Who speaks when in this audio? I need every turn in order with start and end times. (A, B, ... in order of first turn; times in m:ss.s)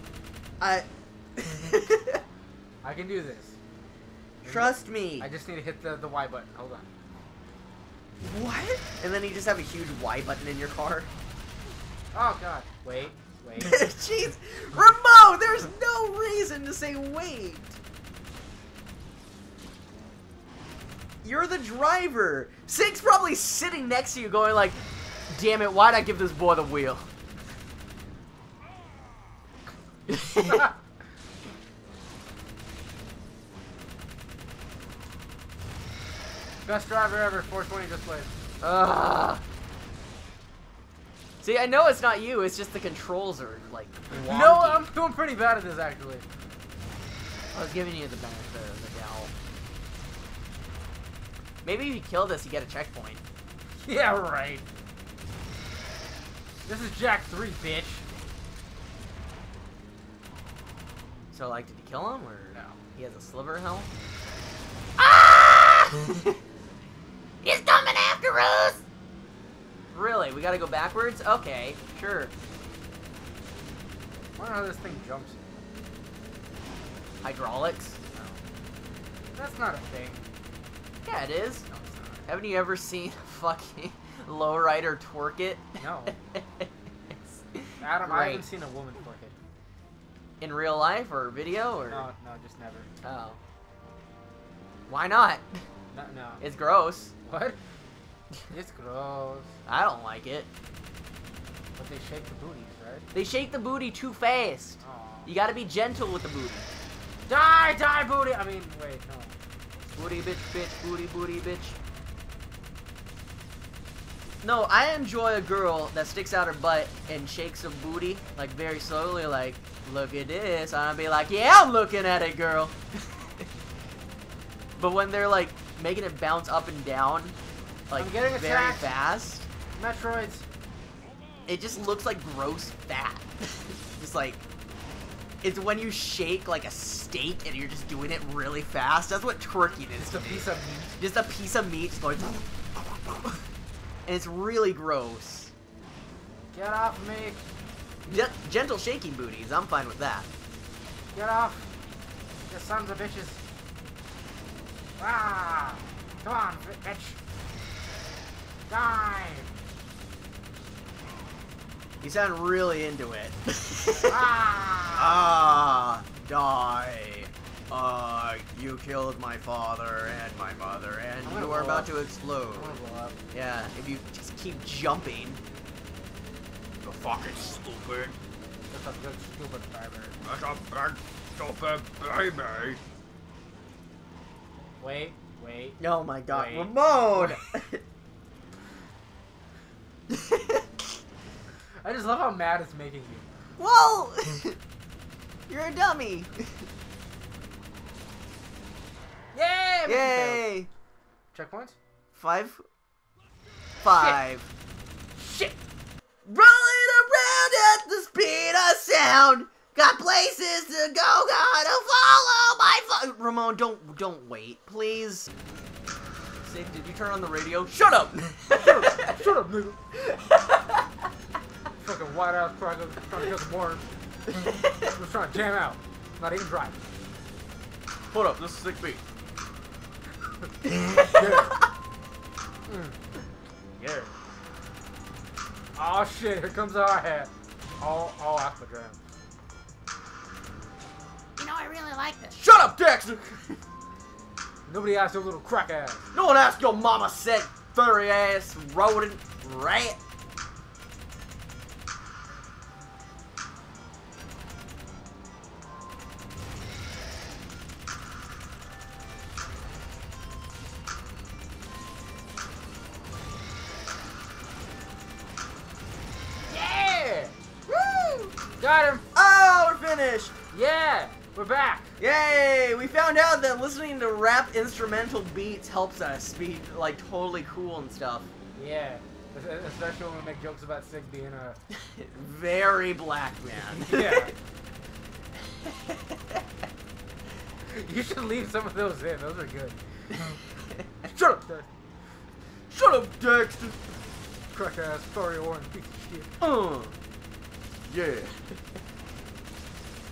0:00.6-0:02.2 A
0:02.8-0:03.6 B
0:04.4-0:06.9 B
0:04.4-0:05.3 A
0:08.2-0:11.1 A
0:12.1-0:13.9 B
0:13.6-0:17.8 A
0:21.2-0:27.1 A
0:30.1-0:30.7 A
0:36.6-0:38.3 B
0:38.6-0:39.4 A
0:41.4-0:44.9 A
0:44.1-0:46.2 B
0:47.5-0:49.3 A
0:51.6-0:53.2 A
0:53.8-0:54.6 B
0:56.6-0:58.0 B
1:01.3-1:03.9 A
1:05.0-1:06.2 A
1:07.4-1:08.8 A
1:09.9-1:12.3 A
1:14.4-1:15.4 B
1:17.2-1:18.0 A
1:18.1-1:18.4 B
1:19.4-1:20.2 B
1:21.0-1:21.7 A
1:21.7-1:22.2 B
1:22.3-1:25.8 A
1:25.8-1:26.1 B
1:26.3-1:26.7 A
1:27.4-1:28.4 A
1:27.8-1:29.4 B
1:30.4-1:32.1 A
1:31.9-1:32.9 B
1:33.0-1:33.4 A
1:34.9-1:35.6 A
1:35.9-1:36.4 B
1:36.4-1:37.1 A
1:37.2-1:37.6 B
1:38.5-1:39.5 B
1:39.6-1:40.5 A
1:41.8-1:43.1 B
1:43.1-1:46.7 A
1:44.8-1:45.3 B
1:47.3-1:49.3 B
1:49.9-1:51.8 A
1:54.4-2:03.2 A
2:04.8-2:07.4 A
2:07.9-2:09.5 A
2:08.0-2:09.0 B
2:09.8-2:10.4 B
2:11.5-2:14.4 A
2:15.4-2:20.5 A
2:20.0-2:21.0 B
2:21.0-2:23.4 A
2:24.0-2:25.5 A
2:26.5-2:27.4 B
2:28.1-2:30.3 A
2:31.1-2:31.7 B
2:32.5-2:33.4 B
2:35.0-2:37.2 B
2:38.7-2:39.5 B
2:42.0-2:44.2 A
2:43.9-2:45.2 B
2:45.0-2:52.7 A
2:51.2-2:51.9 B
2:52.5-2:53.2 B
2:53.3-2:55.4 A
2:56.8-2:57.8 C
2:56.9-2:58.1 D
2:58.7-3:00.2 B
3:00.3-3:00.7 D
3:01.4-3:02.2 C
3:01.4-3:02.6 D
3:04.8-3:07.4 B
3:05.8-3:07.8 A
3:10.1-3:10.6 A
3:11.8-3:13.3 B
3:13.6-3:14.6 A
3:15.5-3:16.6 A
3:19.3-3:20.4 B
3:19.8-3:20.7 A
3:21.3-3:21.8 B
3:22.1-3:22.6 A
3:23.8-3:24.5 A
3:23.9-3:24.2 B
3:25.2-3:25.6 B
3:26.2-3:35.3 A
3:36.4-3:39.2 A
3:38.5-3:39.8 B
3:40.2-3:40.5 A
3:41.8-3:43.8 B
3:44.8-3:46.8 B
3:48.1-3:49.0 A
3:50.8-3:51.4 A
3:51.0-3:51.6 B
3:52.7-3:52.9 B
3:53.8-3:54.1 B
3:55.8-3:59.0 B
4:01.4-4:02.1 C
4:02.2-4:03.6 A
4:04.7-4:06.0 B
4:06.1-4:10.0 A
4:26.4-4:27.3 B
4:27.7-4:28.3 A
4:28.6-4:29.0 B
4:29.1-4:30.3 A
4:30.5-4:31.9 B
4:32.0-4:38.3 A
4:38.5-4:41.6 B
4:41.7-4:44.3 A
4:43.6-4:44.3 B
4:45.6-4:46.4 A
4:47.6-4:50.2 B
4:51.0-4:51.7 B
4:52.7-4:53.9 A
4:54.5-4:56.3 B
4:56.4-4:57.0 A
4:57.9-4:58.6 A